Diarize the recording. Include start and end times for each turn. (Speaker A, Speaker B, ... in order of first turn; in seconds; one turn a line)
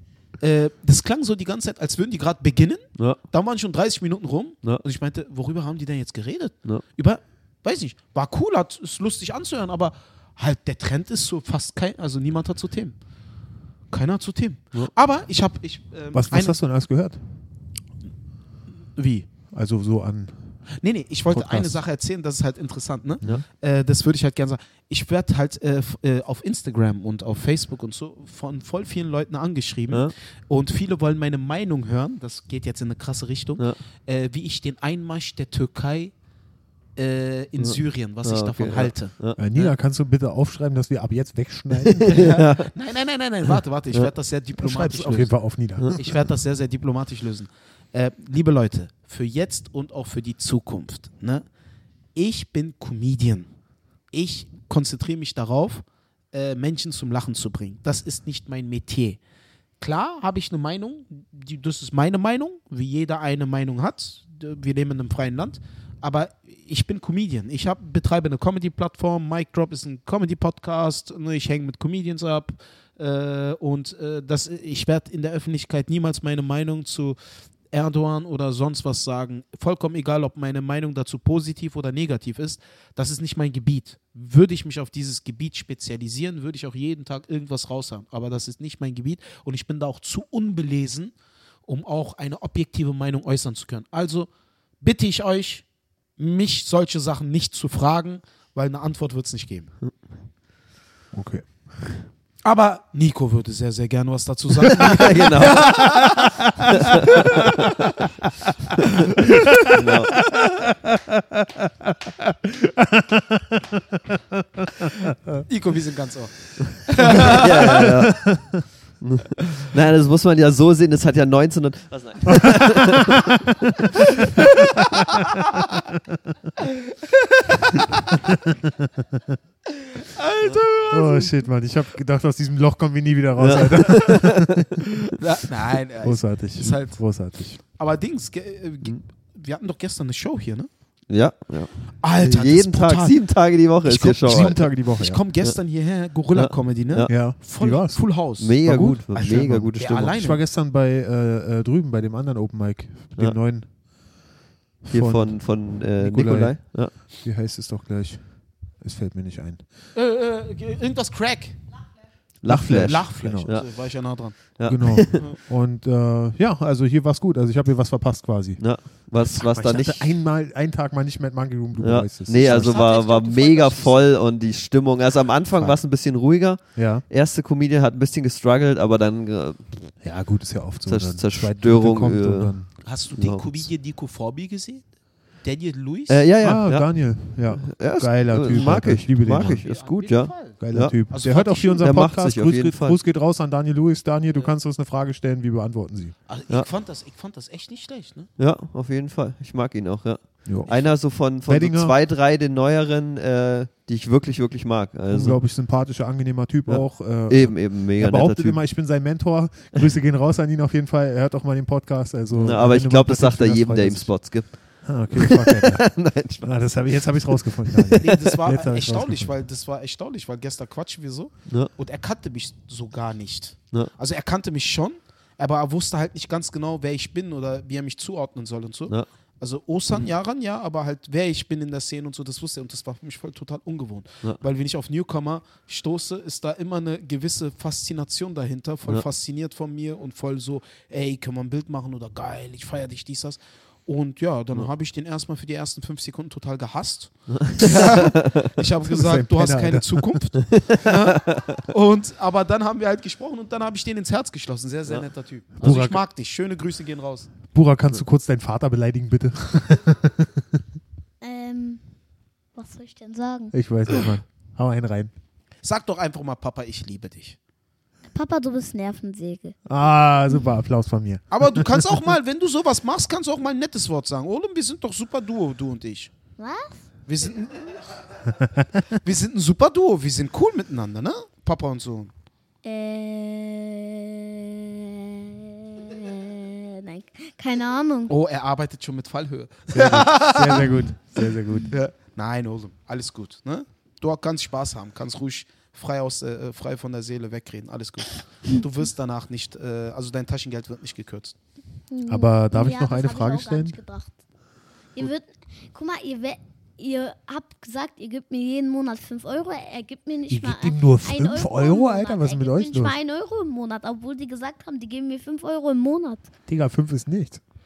Speaker A: 0.4-13.0
Speaker A: 13.9-16.6
Speaker B: 16.1-17.2
Speaker A: 19.0-19.3
Speaker B: 19.5-20.6
Speaker A: 20.8-36.1
Speaker B: 21.3-21.8
Speaker A: 37.0-39.7
Speaker C: 37.6-39.4
Speaker B: 39.4-42.3
Speaker C: 41.9-42.7
Speaker A: 42.1-51.5
Speaker B: 44.6-46.0
Speaker A: 52.1-53.5
Speaker A: 54.1-59.2
Speaker A: 59.8-77.2
Speaker A: 77.7-91.1
Speaker A: 91.7-94.3
Speaker A: 94.8-95.7
Speaker A: 96.2-99.7
Speaker B: 101.1-102.0
Speaker A: 102.5-107.7
Speaker C: 104.8-106.0
Speaker B: 105.5-106.8
Speaker C: 106.7-107.6
Speaker B: 109.2-115.5
Speaker C: 109.7-110.3
Speaker A: 115.5-117.9
Speaker B: 117.0-118.6
Speaker C: 117.0-123.4
Speaker B: 122.3-123.7
Speaker C: 124.0-124.4
Speaker B: 124.3-125.2
Speaker A: 124.8-125.7
Speaker B: 125.9-126.3
Speaker A: 126.6-128.3
Speaker B: 128.3-129.4
Speaker A: 129.8-131.3
Speaker B: 130.9-134.9
Speaker C: 133.4-134.8
Speaker A: 135.2-137.0
Speaker B: 136.0-137.6
Speaker A: 137.7-140.7
Speaker C: 141.1-144.7
Speaker A: 142.0-143.2
Speaker A: 143.8-148.5
Speaker B: 144.2-145.2
Speaker C: 146.3-147.1
Speaker B: 147.1-148.1
Speaker C: 148.4-150.2
Speaker B: 148.6-153.7
Speaker A: 149.8-150.4
Speaker B: 154.8-159.6
Speaker C: 154.9-156.9
Speaker A: 159.9-161.6
Speaker C: 162.4-165.2
Speaker B: 162.5-163.5
Speaker A: 162.7-164.5
Speaker B: 164.7-172.8
Speaker A: 165.0-165.4
Speaker C: 168.6-170.1
Speaker C: 171.8-179.9
Speaker D: 172.7-173.9
Speaker A: 172.7-173.9
Speaker B: 176.8-177.0
Speaker B: 180.0-182.7
Speaker C: 180.9-182.6
Speaker A: 182.8-184.9
Speaker C: 183.2-183.7
Speaker A: 185.4-186.2
Speaker C: 186.1-191.1
Speaker B: 186.4-189.6
Speaker A: 189.3-191.9
Speaker B: 190.6-196.2
Speaker C: 191.8-193.0
Speaker A: 196.3-198.3
Speaker C: 198.4-205.4
Speaker B: 200.5-200.9
Speaker B: 201.4-201.9
Speaker B: 205.1-215.9
Speaker C: 206.7-208.6
Speaker C: 212.4-217.0
Speaker B: 216.4-219.3
Speaker C: 217.7-218.2
Speaker A: 218.0-257.3
Speaker C: 247.3-248.4
Speaker B: 248.9-250.2
Speaker C: 250.4-251.6
Speaker B: 255.6-256.0
Speaker B: 257.5-260.6
Speaker D: 261.2-261.8
Speaker D: 262.6-263.5
Speaker B: 263.5-265.1
Speaker A: 265.6-267.4
Speaker D: 268.1-269.6
Speaker B: 269.7-272.0
Speaker A: 271.3-276.1
Speaker D: 276.4-276.8
Speaker A: 277.1-277.8
Speaker A: 278.9-282.1
Speaker D: 282.6-288.1
Speaker A: 288.1-290.9
Speaker B: 289.7-291.8
Speaker A: 291.7-301.4
Speaker D: 301.9-304.2
Speaker B: 302.1-303.8
Speaker D: 304.9-316.3
Speaker B: 310.3-313.0
Speaker B: 316.5-317.4